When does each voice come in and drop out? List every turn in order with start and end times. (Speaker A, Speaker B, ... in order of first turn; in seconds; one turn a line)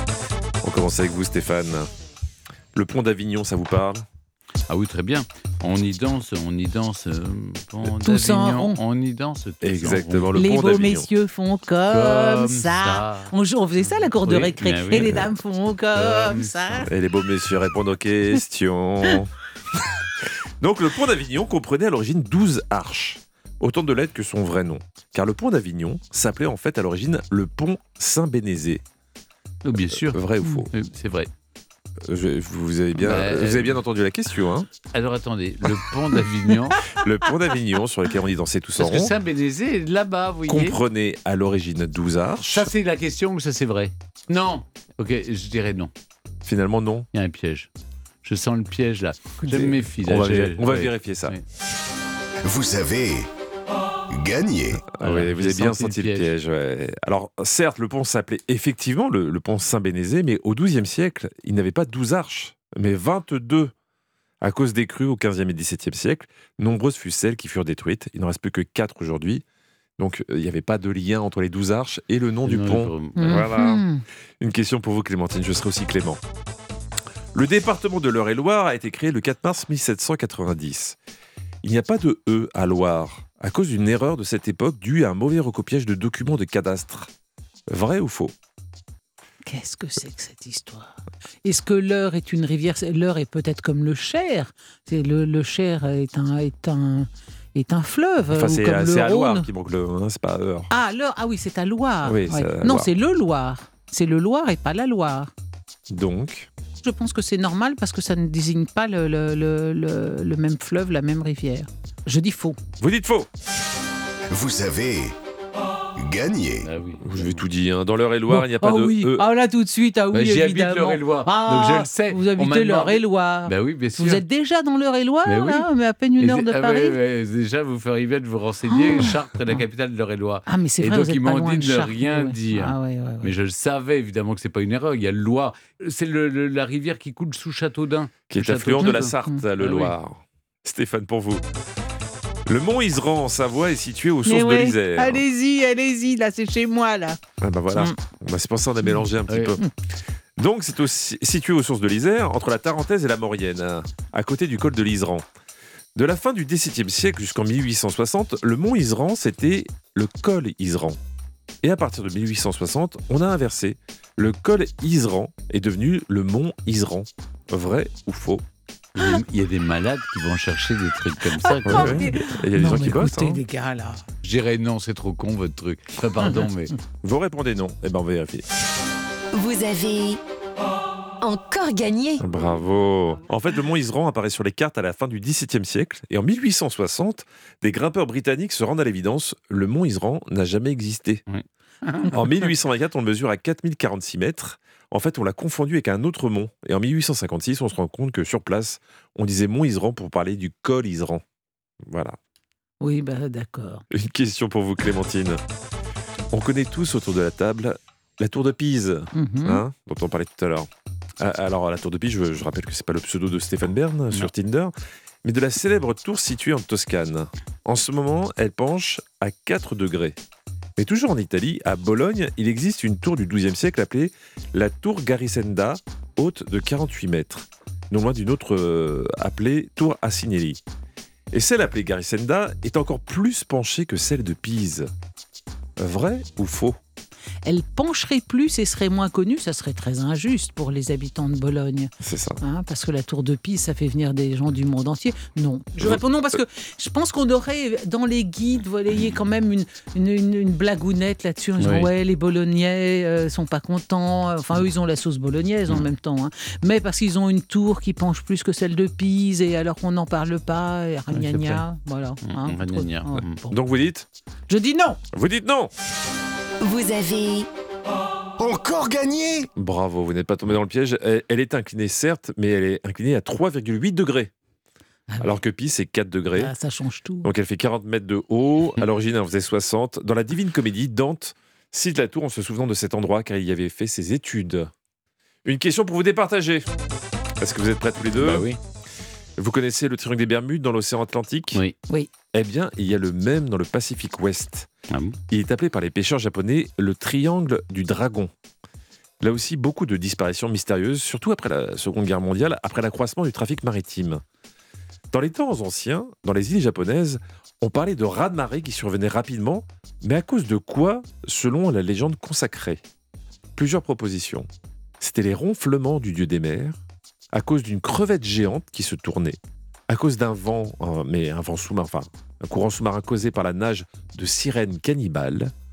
Speaker A: 0.6-1.9
Speaker A: 2.7-4.0
Speaker B: 4.7-10.4
Speaker C: 8.0-8.8
Speaker A: 9.6-11.1
Speaker C: 10.3-16.9
Speaker B: 11.9-13.3
Speaker B: 14.2-15.2
Speaker A: 14.9-15.3
Speaker B: 15.9-16.9
Speaker A: 16.9-19.3
Speaker A: 20.6-28.8
Speaker B: 29.6-31.3
Speaker A: 29.9-30.7
Speaker A: 32.0-34.7
Speaker B: 33.0-33.8
Speaker B: 34.9-36.8
Speaker A: 36.9-39.1
Speaker B: 38.8-40.8
Speaker A: 40.5-42.7
Speaker B: 42.4-45.9
Speaker A: 46.4-47.1
Speaker B: 47.1-47.7
Speaker B: 48.2-51.4
Speaker A: 49.4-51.4
Speaker D: 52.4-53.3
Speaker D: 54.1-54.8
Speaker A: 54.9-63.7
Speaker B: 55.0-56.3
Speaker A: 64.4-69.4
Speaker A: 70.0-73.8
Speaker B: 72.4-73.2
Speaker C: 73.2-74.0
Speaker A: 74.4-76.2
Speaker A: 77.3-81.0
Speaker A: 81.6-87.1
Speaker A: 87.7-88.3
Speaker C: 89.4-99.5
Speaker A: 98.3-100.7
Speaker C: 100.7-105.3
Speaker A: 102.0-102.9
Speaker A: 105.9-106.5
Speaker C: 106.8-112.6
Speaker A: 112.8-113.3
Speaker D: 114.3-115.2
Speaker D: 116.0-116.7
Speaker B: 116.6-117.4
Speaker A: 117.0-119.2
Speaker C: 118.3-127.0
Speaker B: 120.1-124.2
Speaker B: 125.2-125.7
Speaker B: 126.2-139.9
Speaker C: 128.7-129.6
Speaker C: 130.5-133.3
Speaker A: 138.3-141.4
Speaker C: 138.8-139.4
Speaker A: 142.4-145.2
Speaker C: 144.2-147.2
Speaker A: 147.4-149.6
Speaker B: 149.3-149.6
Speaker A: 150.4-155.2
Speaker A: 155.9-161.0
Speaker A: 161.6-168.4
Speaker B: 168.9-172.1
Speaker C: 171.3-174.0
Speaker A: 171.7-173.4
Speaker B: 174.2-176.7
Speaker C: 176.2-176.5
Speaker A: 177.0-178.4
Speaker E: 179.3-180.2
Speaker E: 181.2-182.2
Speaker A: 182.2-191.2
Speaker B: 191.3-192.1
Speaker A: 192.1-201.2
Speaker A: 201.8-202.2
Speaker C: 202.8-203.8
Speaker A: 203.9-205.4
Speaker A: 206.3-220.2
Speaker C: 209.1-209.6
Speaker A: 220.8-230.6
Speaker A: 231.3-234.9
Speaker A: 235.8-236.8
Speaker C: 237.4-263.6
Speaker A: 242.0-242.4
Speaker B: 251.6-251.9
Speaker B: 261.1-261.6
Speaker B: 262.2-263.4
Speaker A: 263.5-264.1
Speaker C: 264.5-265.0
Speaker A: 265.1-265.7
Speaker E: 266.6-267.5
Speaker D: 268.4-269.5
Speaker A: 269.5-274.3
Speaker C: 275.1-275.4
Speaker A: 275.2-276.5
Speaker C: 276.4-277.3
Speaker A: 277.2-284.7
Speaker A: 285.4-286.7
Speaker A: 287.4-288.5
Speaker B: 288.1-288.6
Speaker A: 289.4-291.6
Speaker A: 292.3-294.7
Speaker B: 294.9-295.2
Speaker A: 295.3-298.3
Speaker A: 299.2-304.2
Speaker A: 305.1-312.8
Speaker A: 313.6-314.5
Speaker A: 315.0-316.8
Speaker A: 317.3-319.4
Speaker A: 319.9-325.5